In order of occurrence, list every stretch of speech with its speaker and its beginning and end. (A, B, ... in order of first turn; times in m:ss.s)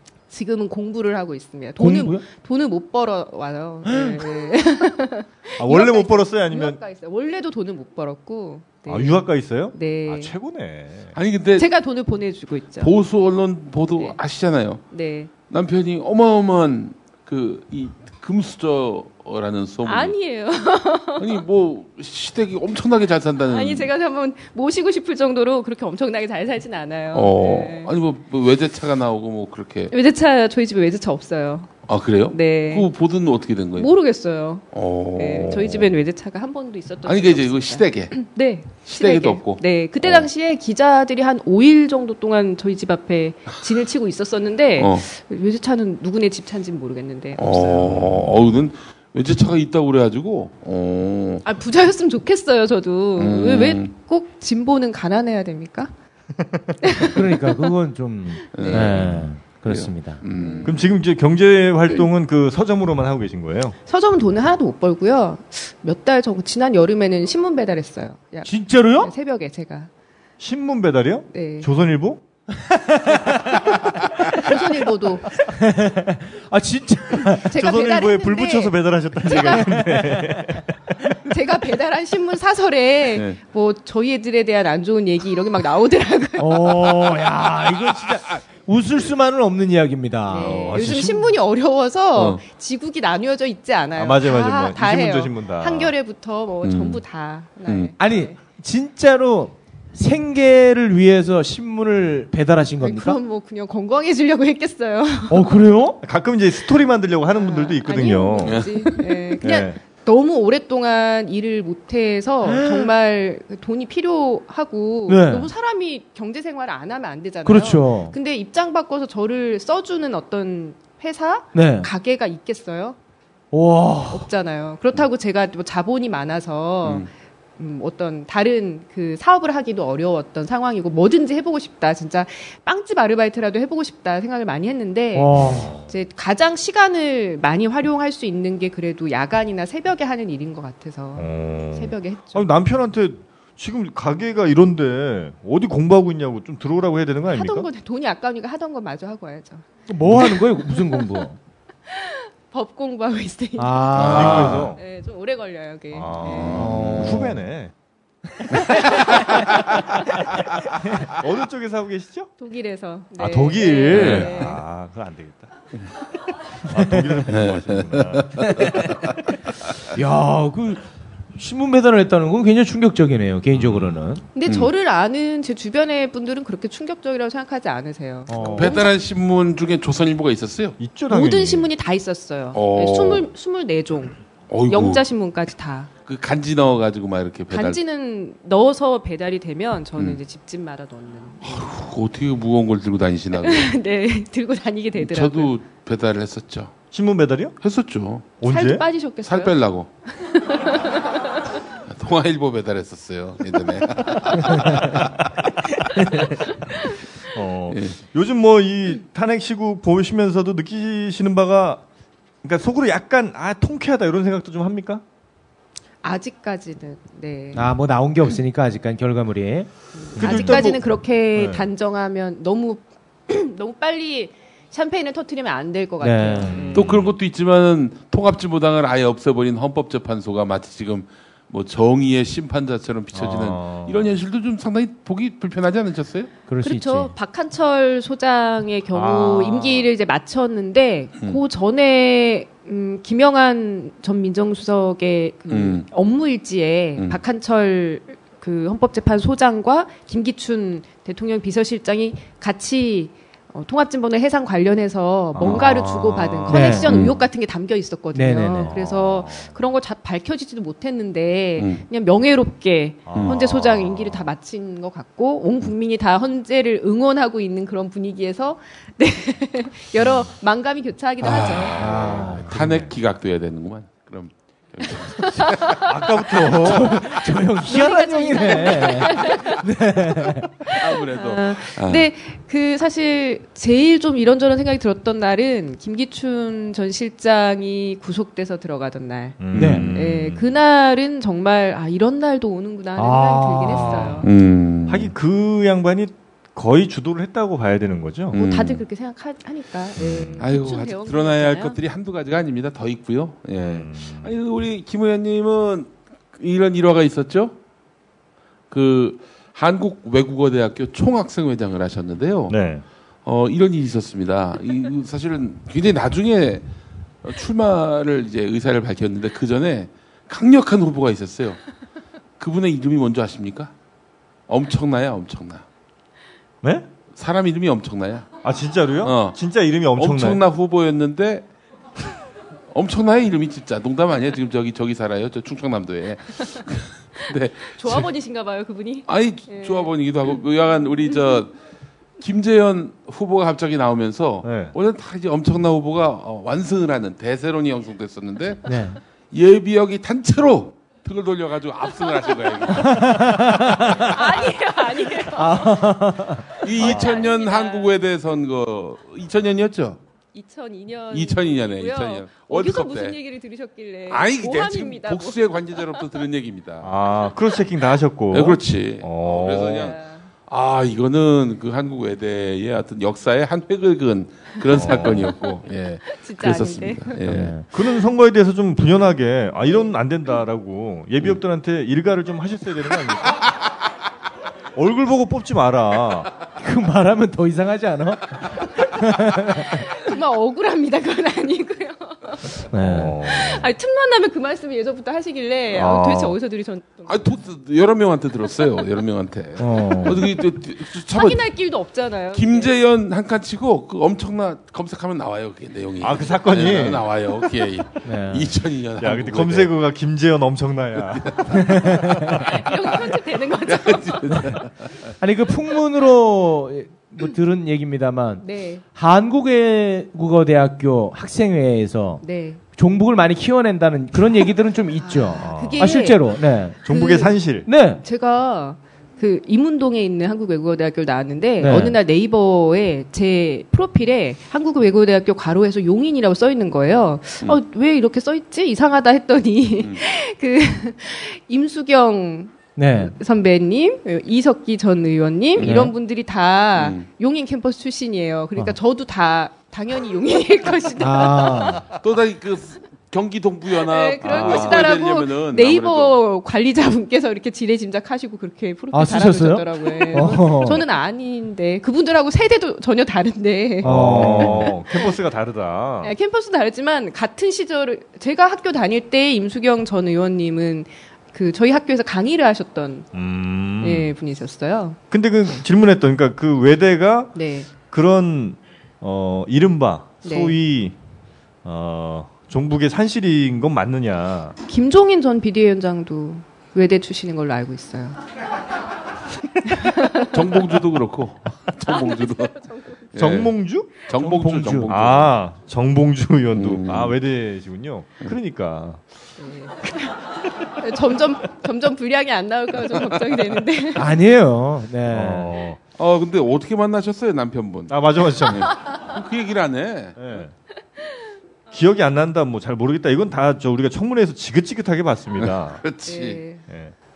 0:00.3-0:10.3 A
0:01.8-0:02.2 B
0:03.9-0:04.2 B
0:05.6-0:06.8 C
0:08.9-0:11.1 C
0:11.2-0:11.7 D
0:11.6-0:12.9 A
0:12.8-0:14.8 D
0:14.9-0:15.3 A
0:15.5-0:20.2 D
0:19.8-0:21.4 A
0:21.2-0:23.9 D
0:23.5-0:27.9 A
0:27.1-0:29.9 D
0:29.9-0:32.9 A
0:31.9-0:33.9 D
0:33.8-0:48.0 A
0:34.7-0:35.9 D
0:37.0-0:38.1 D
0:38.9-0:40.3 D
0:44.8-0:45.1 D
0:47.4-0:51.4 D
0:51.4-0:55.9 A
0:53.2-0:53.9 D
0:56.8-0:57.6 A
0:57.1-1:00.2 B
0:58.5-1:00.8 D
0:58.6-0:58.9 A
1:00.3-1:00.8 A
1:00.6-1:03.8 C
1:03.9-1:09.9 A
1:08.4-1:09.1 B
1:10.4-1:12.2 C
1:11.3-1:11.7 A
1:12.7-1:13.7 B
1:14.3-1:15.3 A
1:15.4-1:17.5 B
1:17.4-1:19.8 A
1:17.5-1:21.2 C
1:20.1-1:20.4 B
1:21.3-1:26.9 A
1:23.1-1:23.4 D
1:26.4-1:30.8 B
1:30.3-1:38.4 A
1:30.4-1:31.3 C
1:34.0-1:35.9 C
1:36.6-1:37.0 D
1:37.7-1:37.9 D
1:38.0-1:43.2 B
1:42.8-1:45.5 A
1:45.3-1:46.0 B
1:46.0-1:48.6 C
1:47.3-2:03.0 A
1:48.4-1:48.8 D
1:49.4-1:49.8 C
1:52.5-1:52.9 B
1:55.1-1:55.5 B
1:57.4-1:58.1 B
2:01.6-2:01.9 B
2:03.5-2:04.3 B
2:04.1-2:22.5 A
2:06.8-2:07.1 D
2:15.2-2:15.7 B
2:15.4-2:15.9 C
2:21.2-2:27.7 C
2:27.3-2:31.1 A
2:29.9-2:31.4 B
2:31.9-2:36.6 A
2:33.6-2:34.7 B
2:34.0-2:34.7 D
2:34.0-2:34.8 C
2:35.9-2:37.7 C
2:36.2-2:36.8 D
2:36.5-2:37.4 B
2:41.0-2:42.3 C
2:42.4-2:44.6 A
2:43.2-2:45.5 C
2:43.9-2:44.3 D
2:46.7-2:48.5 C
2:47.3-2:48.4 D
2:48.4-2:48.8 B
2:49.9-2:50.8 B
2:51.4-2:54.2 B
2:53.6-2:54.0 C
2:54.4-2:59.0 A
2:58.3-2:58.8 B
2:58.6-3:00.8 D
3:00.8-3:01.7 C
3:01.1-3:05.9 A
3:02.5-3:03.3 D
3:04.5-3:05.0 D
3:06.1-3:07.8 D
3:07.5-3:11.7 A
3:11.4-3:13.7 D
3:13.3-3:15.5 A
3:15.0-3:16.7 D
3:16.9-3:17.6 C
3:17.6-3:18.4 D
3:18.4-3:18.8 C
3:18.4-3:19.6 A
3:19.2-3:19.9 D
3:20.1-3:21.4 A
3:21.9-3:25.2 D
3:27.3-3:31.8 C
3:27.7-3:28.0 D
3:32.4-3:35.0 C
3:36.0-3:37.6 A
3:37.6-3:40.6 B
3:40.0-3:46.9 A
3:40.2-3:41.7 C
3:46.0-3:46.7 B
3:46.4-3:47.2 C
3:46.7-3:56.3 D
3:53.1-3:54.2 C
3:56.5-3:57.1 B
3:56.6-4:31.8 A
3:58.9-3:59.9 C
4:05.5-4:05.9 D
4:15.4-4:17.1 C
4:16.5-4:16.9 B
4:18.1-4:18.7 B
4:18.6-4:19.6 C
4:21.6-4:21.8 D
4:23.1-4:23.9 C
4:23.2-4:23.5 D
4:31.2-4:35.8 D
4:31.6-4:32.9 C
4:31.8-4:32.5 B
4:35.2-4:35.8 A
4:35.8-4:37.0 C
4:36.6-4:40.5 B
4:37.6-4:39.6 A
4:40.7-4:54.3 A
4:40.8-4:42.1 D
4:49.4-4:50.4 C
4:49.6-4:49.9 D
4:49.6-4:49.8 B
4:53.0-4:54.2 B
4:54.2-4:55.1 D
4:54.9-4:58.4 C
4:58.3-4:58.8 D
4:58.4-5:01.8 A
5:00.0-5:00.5 C
5:00.4-5:07.6 D
5:03.6-5:04.3 C
5:08.7-5:12.6 D
5:12.5-5:12.8 C
5:13.2-5:16.6 D
5:17.2-5:21.6 D
5:22.4-5:23.7 D
5:24.5-5:25.6 D
5:27.1-5:28.3 D
5:28.4-5:30.4 C
5:29.0-5:29.4 D
5:30.0-5:31.5 D
5:32.7-5:38.1 D
5:37.2-5:39.9 A
5:39.1-5:41.5 D
5:42.2-5:48.7 D
5:44.4-5:44.7 C
5:48.7-5:49.0 B
5:49.3-5:53.0 D
5:52.8-5:54.1 B
5:54.0-5:56.0 A
5:55.4-5:56.5 B
5:56.6-6:00.0 D
5:56.6-5:58.0 A
6:00.3-6:06.1 A
6:01.1-6:03.2 D
6:04.1-6:06.9 D
6:06.8-6:09.9 C
6:08.3-6:10.0 D
6:09.6-6:10.3 A
6:10.5-6:17.6 D
6:14.7-6:15.2 A
6:14.8-6:15.3 C
6:16.1-6:17.2 A
6:17.3-6:17.6 B
6:17.6-6:23.5 C
6:24.8-6:26.3 C
6:26.6-6:29.9 B
6:29.9-6:37.4 A
6:32.7-6:33.2 B
6:32.7-6:33.6 C
6:35.7-6:36.4 C
6:37.1-6:41.4 D
6:39.6-6:40.3 B
6:41.0-6:42.7 A
6:42.3-6:49.7 D
6:46.0-6:47.3 C
6:48.0-6:48.5 B
6:49.0-6:52.4 C
6:51.2-6:51.5 D
6:51.6-6:52.1 B
6:52.5-6:54.3 A
6:53.7-6:54.9 D
6:55.2-7:02.2 B
6:58.4-6:58.8 A
7:02.2-7:02.6 A
7:02.8-7:06.8 B
7:05.0-7:06.4 A
7:05.4-7:06.0 C
7:06.8-7:07.7 C
7:06.9-7:07.4 A
7:07.7-7:08.0 B
7:08.0-7:31.9 A
7:11.6-7:12.0 B
7:22.8-7:23.1 B
7:25.6-7:25.9 D
7:25.6-7:25.9 B
7:26.8-7:27.1 D
7:31.0-7:31.8 B
7:32.0-7:36.2 D
7:33.8-7:45.2 A
7:34.2-7:34.9 C
7:38.9-7:40.8 B
7:43.8-7:44.6 B
7:43.8-7:46.1 C
7:46.0-7:53.1 A
7:53.1-7:54.1 C
7:53.8-7:55.0 A
7:55.1-7:57.4 C
7:57.4-7:57.7 A
7:57.9-8:01.0 C
8:00.2-8:00.6 A
8:01.6-8:04.6 C
8:04.7-8:08.2 A
8:09.7-8:10.6 A
8:10.3-8:12.5 D
8:11.9-8:13.0 A
8:13.1-8:13.5 D
8:13.2-8:14.0 C
8:14.1-8:15.3 D
8:14.2-8:14.9 B
8:14.9-8:19.0 C
8:16.5-8:17.1 D
8:19.4-8:20.2 A
8:20.8-8:24.1 A
8:24.0-8:25.5 B
8:25.1-8:25.8 C
8:26.0-8:30.2 D
8:27.9-8:28.7 C
8:30.2-8:30.5 C
8:31.7-8:35.8 C
8:35.4-8:36.4 D
8:36.1-8:36.6 A